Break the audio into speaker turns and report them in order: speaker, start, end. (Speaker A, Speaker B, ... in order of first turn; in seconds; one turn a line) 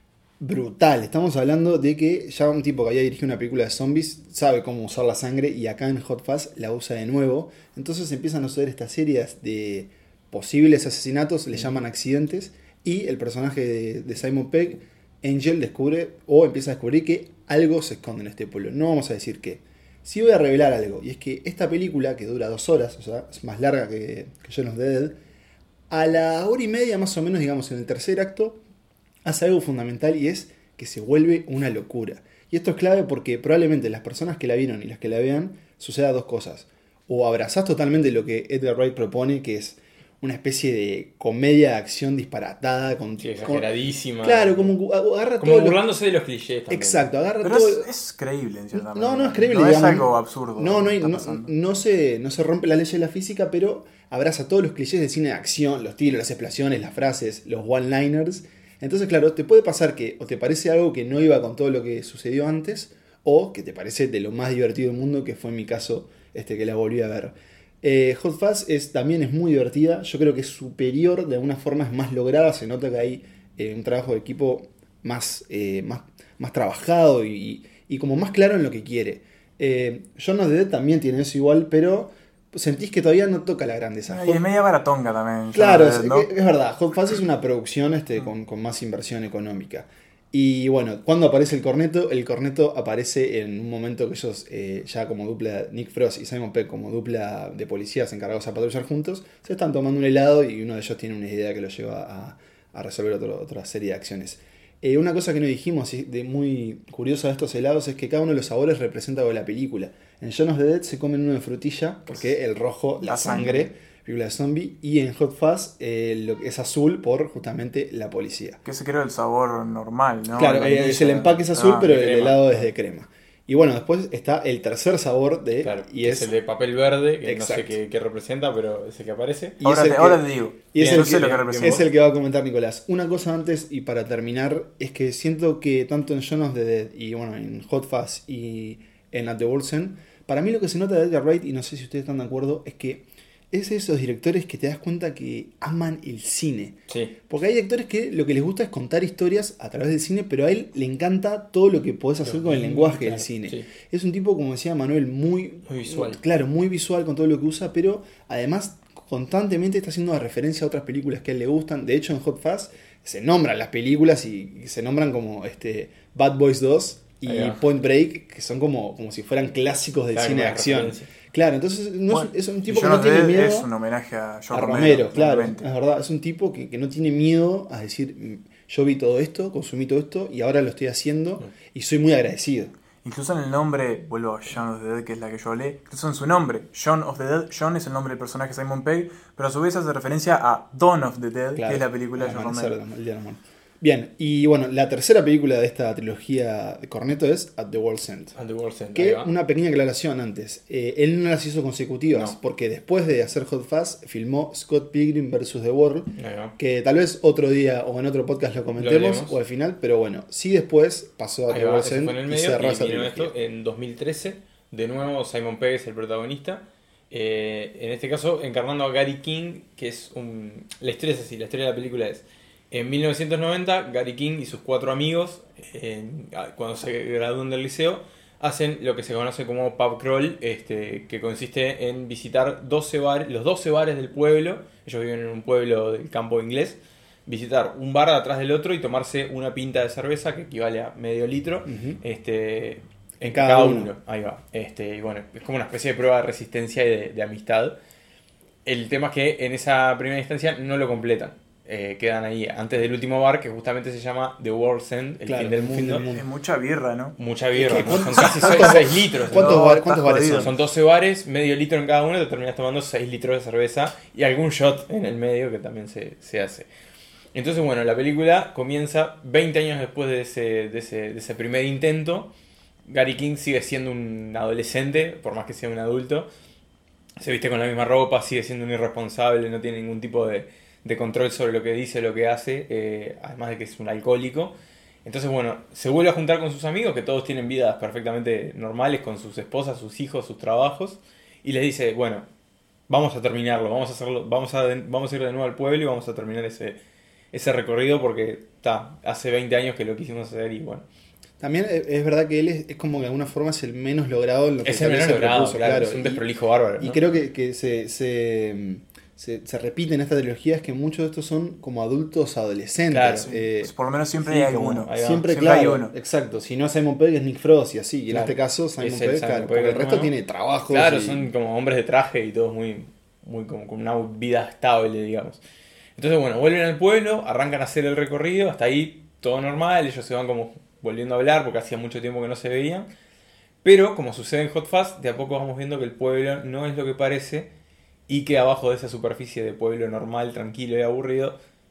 Speaker A: 0.4-25.2
Speaker A: 25.9-28.6
Speaker A: 29.2-43.7
Speaker B: 43.2-44.7
Speaker A: 44.2-45.8
Speaker B: 45.4-47.1
Speaker A: 46.7-47.9
Speaker C: 47.4-51.5
Speaker A: 48.7-84.4
Speaker C: 84.1-86.3
Speaker A: 85.5-118.6
Speaker C: 113.0-113.7
Speaker C: 118.6-122.4
Speaker A: 120.3-126.3
Speaker B: 125.6-129.6
Speaker A: 127.2-127.8
Speaker C: 129.6-131.8
Speaker A: 129.6-173.7
Speaker B: 130.8-131.8
Speaker B: 146.9-147.1
Speaker B: 152.2-153.7
Speaker B: 155.7-156.2
Speaker B: 167.2-167.6
Speaker B: 170.1-171.1
Speaker C: 172.1-175.7
Speaker A: 174.5-182.7
Speaker C: 183.0-192.8
Speaker A: 191.5-198.3
Speaker B: 198.3-199.3
Speaker A: 198.9-213.3
Speaker B: 202.1-202.4
Speaker B: 206.2-206.6
Speaker B: 208.8-209.3
Speaker B: 211.5-247.8
Speaker A: 241.7-242.0
Speaker A: 243.2-243.9
Speaker B: 248.7-256.1
Speaker A: 255.2-256.3
Speaker C: 256.1-260.5
Speaker B: 257.2-259.6
Speaker A: 257.6-260.5
Speaker B: 260.4-266.7
Speaker B: 267.3-272.3
Speaker B: 272.9-276.3
Speaker B: 277.2-292.3
Speaker B: 292.9-296.8
Speaker B: 297.3-300.8
Speaker A: 301.4-313.7
Speaker B: 304.6-307.0
Speaker B: 312.9-313.3
Speaker C: 313.2-315.9
Speaker B: 314.2-315.3
Speaker A: 315.0-321.3
Speaker B: 318.1-320.1
Speaker B: 320.7-325.4
Speaker B: 325.9-332.9
Speaker B: 333.6-337.5
Speaker B: 338.1-341.4